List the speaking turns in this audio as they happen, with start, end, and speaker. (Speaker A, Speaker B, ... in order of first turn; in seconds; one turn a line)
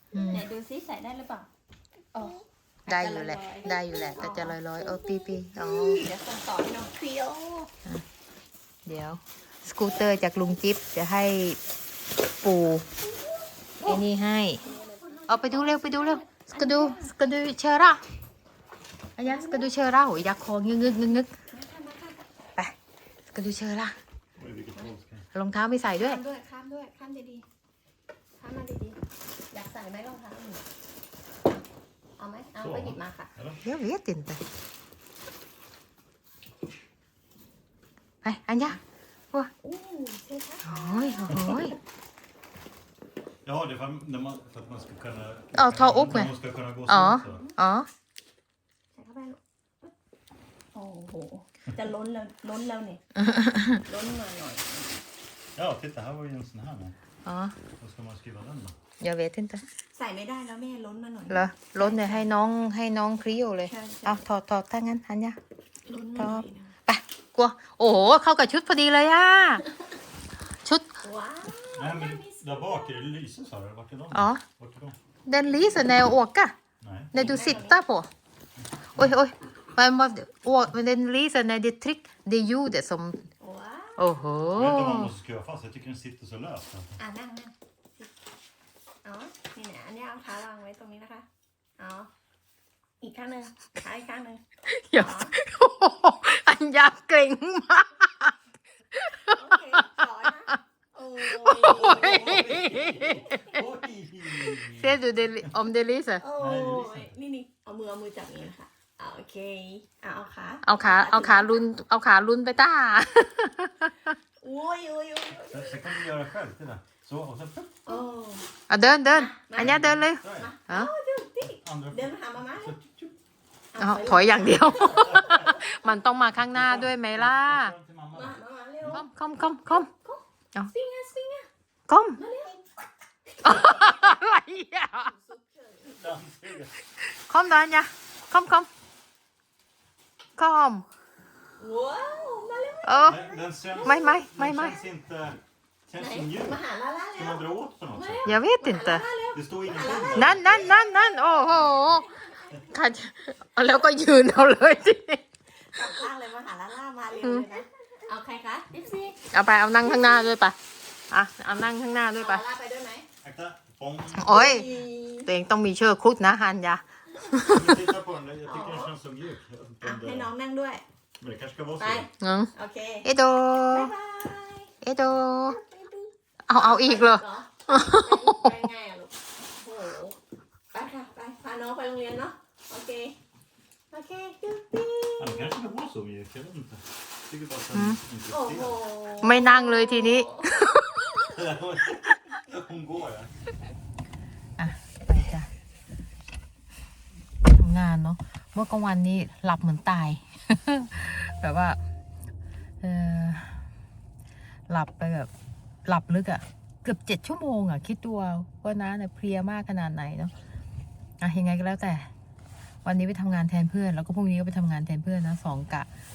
Speaker A: 0.1-0.5
Speaker B: 0.2-1.5
Speaker B: 2.1-7.7
Speaker A: 2.9-6.1
Speaker A: 8.8-11.6
Speaker A: 12.4-12.8
Speaker B: 13.0-14.0
Speaker A: 13.8-14.6
Speaker B: 14.6-17.1
Speaker A: 15.3-18.0
Speaker A: 19.2-21.3
Speaker B: 19.2-19.7
Speaker B: 21.5-22.2
Speaker A: 23.3-23.9
Speaker C: 24.4-25.2
Speaker A: 25.3-26.2
Speaker B: 26.0-27.4
Speaker B: 28.4-29.0
Speaker B: 29.5-30.6
Speaker B: 32.2-33.3
Speaker C: 32.6-33.6
Speaker A: 33.6-34.4
Speaker A: 38.2-38.8
Speaker B: 39.6-41.8
Speaker A: 40.6-41.7
Speaker C: 41.3-41.5
Speaker C: 43.4-47.4
Speaker A: 45.5-46.3
Speaker A: 46.9-47.9
Speaker B: 47.2-47.5
Speaker B: 48.9-49.9
Speaker B: 50.7-53.0
Speaker A: 53.2-53.8
Speaker B: 53.8-54.9
Speaker C: 55.5-56.9
Speaker A: 57.2-57.5
Speaker C: 57.8-58.7
Speaker A: 59.0-59.6
Speaker B: 59.9-62.3
Speaker A: 61.3-65.4
Speaker B: 63.7-64.2
Speaker B: 65.9-66.7
Speaker A: 66.2-69.6
Speaker A: 70.6-71.0
Speaker B: 71.0-73.0
Speaker C: 71.7-75.0
Speaker A: 74.1-74.4
Speaker A: 75.2-76.5
Speaker C: 76.8-77.1
Speaker A: 77.1-78.1
Speaker B: 77.1-77.8
Speaker A: 78.9-83.2
Speaker B: 83.4-84.0
Speaker A: 84.0-85.1
Speaker C: 84.5-87.0
Speaker B: 87.0-88.1
Speaker B: 89.0-91.2
Speaker B: 91.8-92.1
Speaker B: 93.0-94.4
Speaker A: 94.7-98.3
Speaker B: 94.9-95.3
Speaker A: 98.9-99.4
Speaker B: 99.3-102.4
Speaker A: 101.3-103.6
Speaker C: 101.6-105.5
Speaker A: 104.4-106.2
Speaker B: 106.2-111.6
Speaker C: 106.4-107.1
Speaker A: 110.6-114.1
Speaker B: 114.4-116.0
Speaker C: 115.4-117.8
Speaker B: 117.8-118.5
Speaker A: 118.7-120.9
Speaker B: 119.1-122.7
Speaker C: 119.6-120.5
Speaker C: 121.4-123.1
Speaker B: 123.7-125.6
Speaker A: 123.8-127.7
Speaker C: 124.9-125.4
Speaker C: 126.5-129.0
Speaker B: 128.1-129.1
Speaker A: 128.9-129.9
Speaker B: 129.7-131.5
Speaker A: 131.9-132.2
Speaker B: 132.2-132.6
Speaker A: 133.4-135.1
Speaker B: 133.5-133.9
Speaker B: 134.9-136.2
Speaker C: 135.9-136.7
Speaker A: 137.0-138.7
Speaker A: 140.4-140.8
Speaker B: 141.6-144.0
Speaker A: 142.8-143.2
Speaker C: 143.0-146.6
Speaker A: 143.8-144.8
Speaker B: 146.0-152.7
Speaker C: 147.1-148.4
Speaker A: 148.2-149.1
Speaker C: 149.3-150.6
Speaker A: 150.1-152.1
Speaker A: 152.7-155.2
Speaker B: 155.7-159.2
Speaker A: 157.2-157.4
Speaker A: 159.3-160.6
Speaker B: 159.8-160.3
Speaker A: 161.1-162.4
Speaker B: 162.2-163.1
Speaker C: 163.2-164.4
Speaker A: 164.1-164.7
Speaker B: 164.2-165.3
Speaker A: 165.2-167.8
Speaker C: 167.4-170.3
Speaker B: 168.4-168.9
Speaker B: 169.8-170.8
Speaker C: 171.2-172.1
Speaker B: 171.8-174.7
Speaker A: 172.2-172.5
Speaker A: 173.0-173.9
Speaker A: 174.8-175.6
Speaker B: 175.4-180.2
Speaker A: 176.5-178.5
Speaker B: 180.7-183.2
Speaker B: 183.9-185.6
Speaker C: 185.2-188.8
Speaker A: 187.7-188.0
Speaker B: 188.3-190.7
Speaker A: 189.2-191.0
Speaker C: 191.3-193.3
Speaker A: 194.6-195.5
Speaker A: 197.4-201.8
Speaker A: 202.8-203.6
Speaker A: 204.7-205.3
Speaker A: 205.8-210.3
Speaker A: 211.2-212.1
Speaker A: 212.8-215.9